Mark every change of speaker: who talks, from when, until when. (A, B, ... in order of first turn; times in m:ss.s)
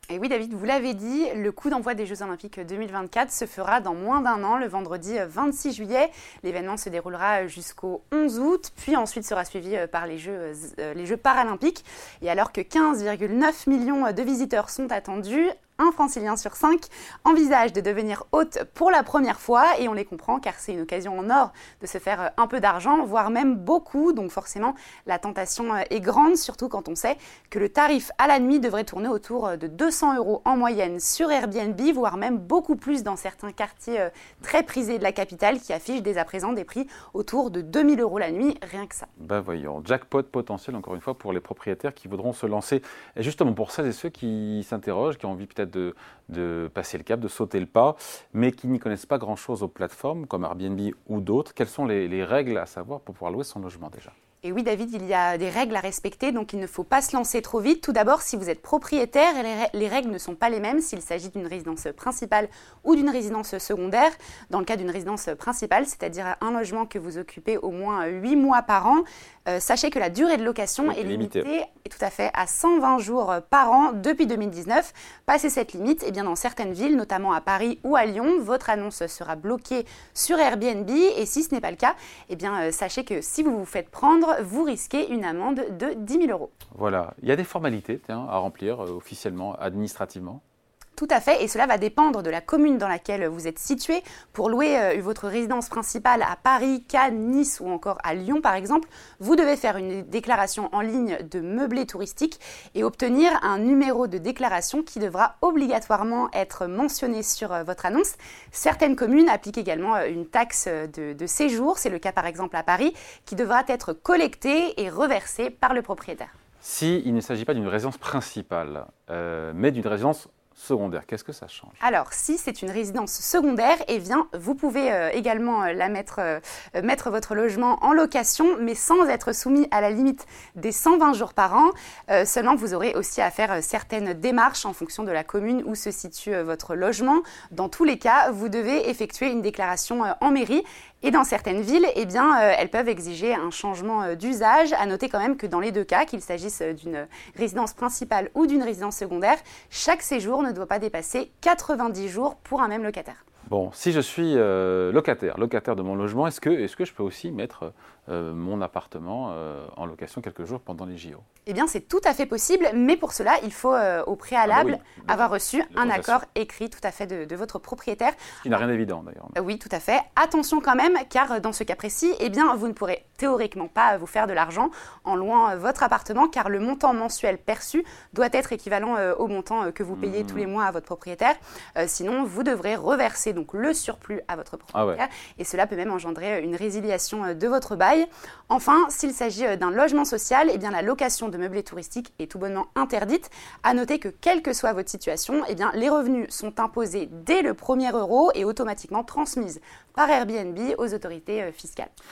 0:00.1-0:39.1 A
0:39.2-0:54.1 B
0:54.4-1:26.5 A
1:10.8-1:11.5 B
1:26.7-1:30.4 B
1:31.0-1:56.3 A
1:56.6-2:01.8 B
2:01.8-2:33.2 A
2:33.5-2:41.2 B
2:41.4-2:48.3 A
2:44.5-2:46.2 B
2:48.4-2:49.4 B
2:49.3-3:21.9 A
2:59.9-3:00.5 B
3:04.7-3:05.0 B